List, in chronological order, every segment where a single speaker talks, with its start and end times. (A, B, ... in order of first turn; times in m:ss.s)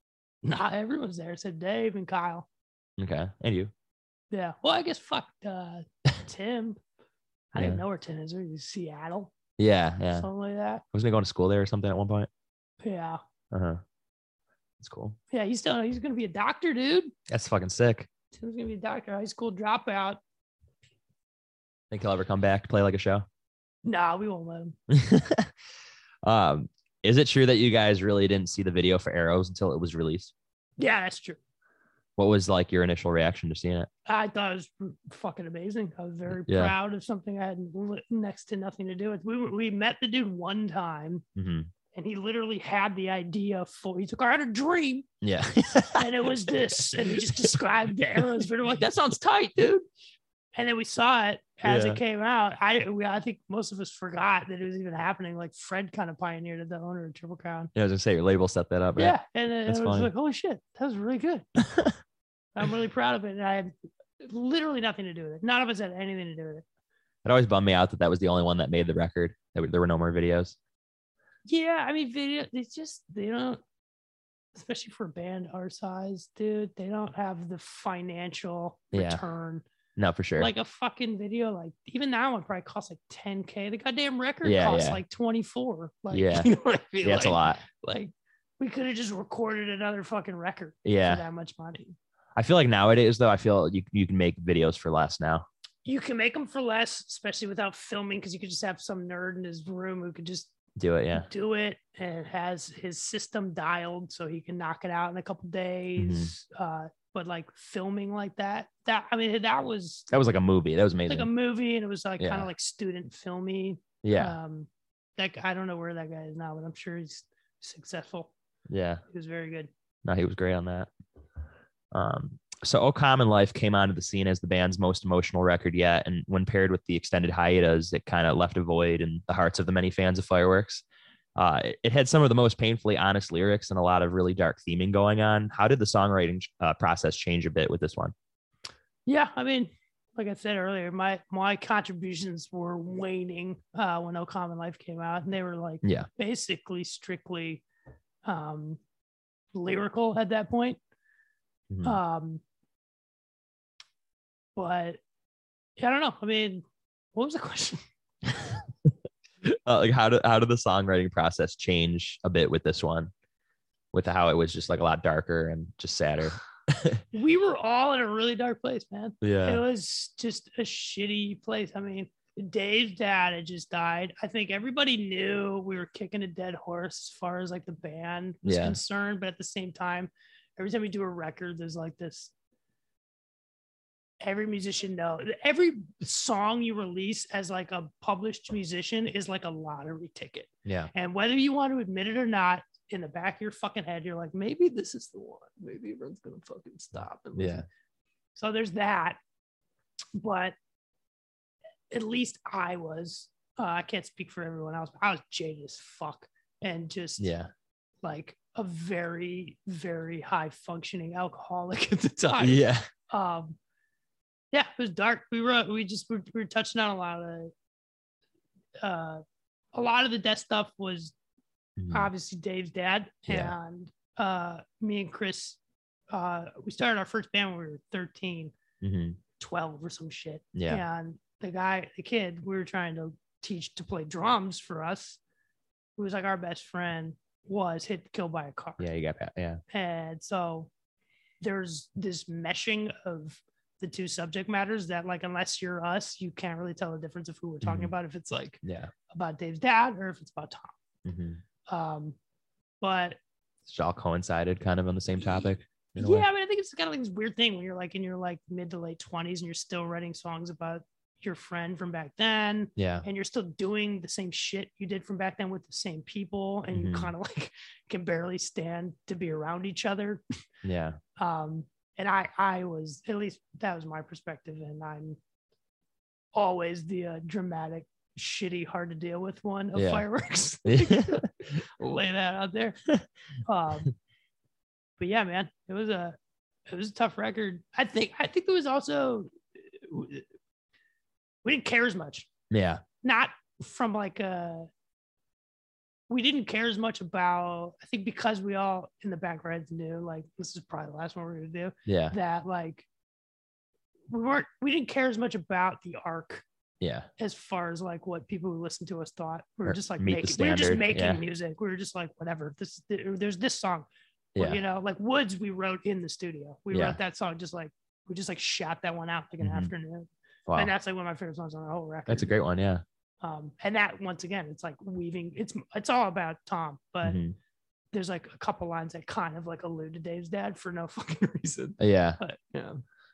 0:00.4-0:02.5 A
0:03.0-0:03.7 B
0:04.3-0:06.8 A
0:07.5-0:09.3 A
0:07.5-0:07.8 B
0:09.6-0:10.3 B
0:10.1-0:10.8 A
0:10.9-0:12.3 B
0:12.8-0:13.2 A
0:13.5-0:13.8 B
0:14.8-0:15.2 B
0:15.3-0:17.1 A
0:17.3-0:18.1 B
0:18.3-0:20.2 A
0:21.9-0:23.2 B
0:23.8-0:24.8 A
0:24.9-0:25.5 B
0:26.2-0:30.3 B
0:30.8-0:31.4 A
0:32.2-0:33.9 B
0:34.0-0:41.2 A
0:36.4-0:36.7 B
0:41.4-0:41.7 B
0:41.9-0:45.1 A
0:45.2-0:46.5 B
0:45.9-0:49.8 A
0:47.1-0:47.5 B
0:50.5-0:57.7 A
0:51.6-0:52.0 B
0:57.7-1:00.1 B
0:59.0-1:01.5 A
1:01.6-1:01.9 B
1:02.5-1:06.6 A
1:07.2-1:10.6 B
1:11.5-1:13.6 A
1:14.5-1:19.6 A
1:18.9-1:19.2 B
1:20.0-1:20.5 B
1:20.4-1:32.0 A
1:24.4-1:25.0 B
1:26.1-1:26.5 B
1:27.0-1:27.6 B
1:30.8-1:31.2 B
1:32.4-1:35.4 B
1:35.8-1:40.5 A
1:40.8-1:41.3 B
1:41.1-1:50.1 A
1:46.0-1:46.3 B
1:50.1-1:51.3 B
1:51.1-1:58.3 A
1:52.2-1:52.5 B
1:54.0-1:54.4 B
1:58.7-1:59.0 B
1:59.1-1:59.7 A
2:00.0-2:00.9 B
2:01.9-2:10.8 B
2:11.4-2:18.1 B
2:19.0-2:27.6 A
2:28.2-2:28.8 A
2:29.5-2:30.8 A
2:31.7-2:32.0 B
2:31.8-2:32.4 A
2:34.6-2:35.0 A
2:35.8-2:36.6 A
2:37.1-2:37.8 A
2:39.4-2:43.1 B
2:43.9-2:47.0 B
2:47.1-3:02.3 A
2:49.2-2:49.6 B
2:58.4-2:58.8 B
3:04.2-3:17.6 A
3:17.3-3:17.6 B
3:18.4-3:19.2 A
3:20.1-3:20.5 A
3:21.9-3:27.3 A
3:27.2-3:27.5 B
3:28.0-3:33.6 A
3:32.4-3:32.8 B
3:34.5-3:37.5 A
3:38.8-3:39.2 A
3:39.7-3:41.1 A
3:41.8-3:42.1 B
3:41.9-3:45.6 A
3:43.3-3:43.5 B
3:46.1-3:48.5 A
3:48.8-3:49.2 B
3:49.4-3:55.2 A
3:50.5-3:50.8 B
3:56.0-3:58.9 A
3:58.8-3:59.6 B
3:59.7-4:00.7 A
4:01.4-4:08.6 A
4:07.6-4:07.9 B
4:08.6-4:08.9 B
4:09.1-4:10.7 A
4:11.0-4:11.4 B
4:11.7-4:12.2 A
4:12.8-4:13.2 A
4:13.7-4:16.3 B
4:16.0-4:30.2 A
4:22.8-4:23.0 B
4:26.7-4:27.1 B
4:30.6-4:31.0 B
4:31.2-4:35.2 A
4:36.3-4:42.8 A
4:39.7-4:40.0 B
4:40.6-4:41.2 B
4:43.4-4:43.9 A
4:45.0-4:46.2 A
4:46.7-4:50.2 A
4:51.4-4:52.3 A
4:52.5-4:52.8 B
4:53.0-4:54.7 A
4:56.1-5:02.8 A
5:01.8-5:02.1 B
5:04.1-5:06.4 A
5:06.8-5:07.1 B
5:07.2-5:13.8 A
5:09.6-5:11.2 B
5:14.3-5:14.6 B
5:14.4-5:22.3 A
5:16.7-5:17.0 B
5:19.4-5:19.7 B
5:22.1-5:22.8 B
5:23.2-5:27.2 A
5:27.0-5:27.3 B
5:27.9-5:32.8 A
5:31.8-5:32.2 B